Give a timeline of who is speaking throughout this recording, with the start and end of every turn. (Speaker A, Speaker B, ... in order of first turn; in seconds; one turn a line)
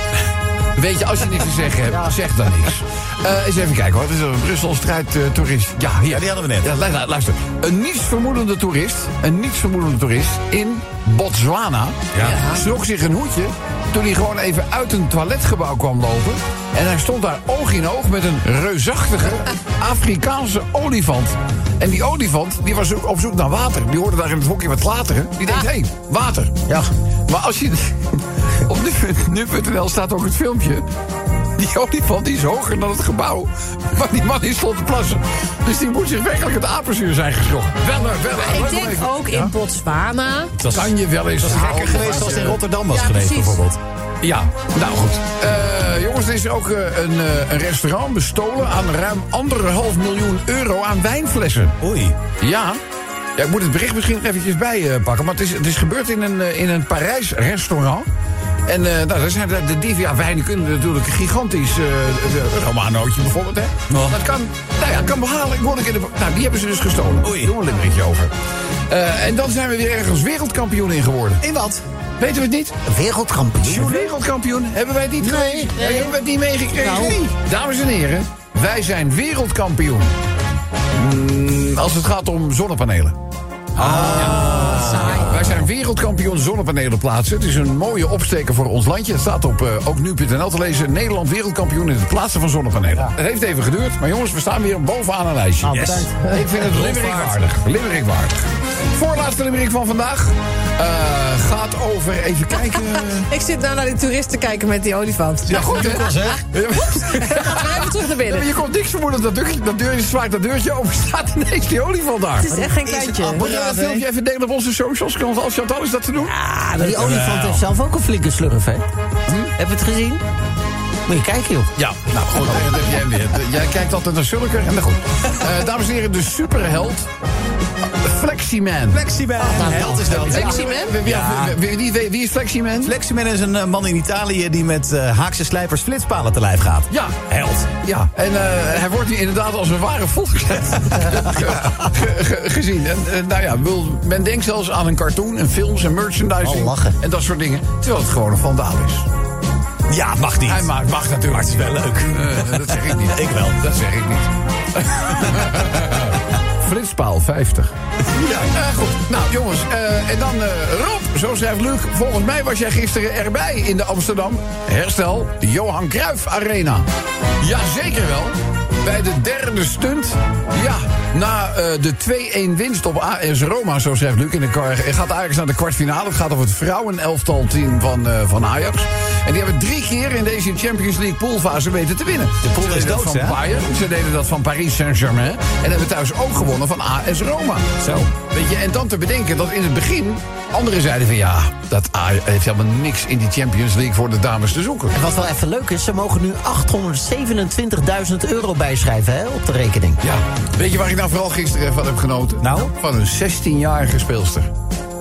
Speaker A: 0.8-26.6
Speaker B: 1.9-2.2
Speaker C: 6.1-6.7
Speaker C: 12.1-12.4
Speaker D: 12.2-12.6
Speaker A: 27.3-30.9
Speaker A: 31.6-39.5
Speaker D: 38.4-40.6
Speaker C: 40.5-43.8
Speaker A: 40.7-42.6
Speaker D: 41.8-43.6
Speaker A: 44.2-51.8
Speaker C: 51.8-52.2
Speaker A: 52.4-52.8
Speaker A: 53.4-58.1
Speaker A: 58.7-68.3
Speaker C: 63.9-64.2
Speaker C: 67.2-67.5
Speaker A: 68.9-71.4
Speaker C: 71.4-71.8
Speaker A: 72.2-72.7
Speaker B: 72.8-74.0
Speaker A: 73.6-80.1
Speaker B: 75.2-76.0
Speaker D: 75.8-76.1
Speaker B: 76.8-77.3
Speaker A: 80.9-83.2
Speaker A: 83.8-103.3
Speaker C: 83.8-85.6
Speaker D: 84.1-85.3
Speaker B: 95.6-96.1
Speaker C: 95.6-97.4
Speaker D: 103.3-108.5
Speaker C: 105.5-106.4
Speaker A: 105.5-112.6
Speaker D: 112.4-113.5
Speaker C: 112.8-114.0
Speaker A: 113.3-116.3
Speaker C: 116.3-117.6
Speaker B: 116.8-118.9
Speaker A: 119.3-119.5
Speaker B: 119.6-120.2
Speaker B: 121.1-121.7
Speaker A: 121.8-127.1
Speaker A: 127.9-129.1
Speaker C: 128.9-131.6
Speaker B: 129.4-130.2
Speaker D: 129.6-130.9
Speaker A: 130.1-133.0
Speaker C: 132.8-137.7
Speaker A: 136.9-137.3
Speaker A: 137.8-149.1
Speaker B: 146.4-147.0
Speaker C: 149.9-150.7
Speaker A: 150.4-157.7
Speaker C: 151.3-153.6
Speaker C: 158.1-158.5
Speaker A: 158.5-166.9
Speaker A: 167.4-194.9
Speaker C: 182.4-183.4
Speaker C: 187.8-188.1
Speaker B: 194.9-200.0
Speaker A: 200.0-204.5
Speaker C: 202.4-202.7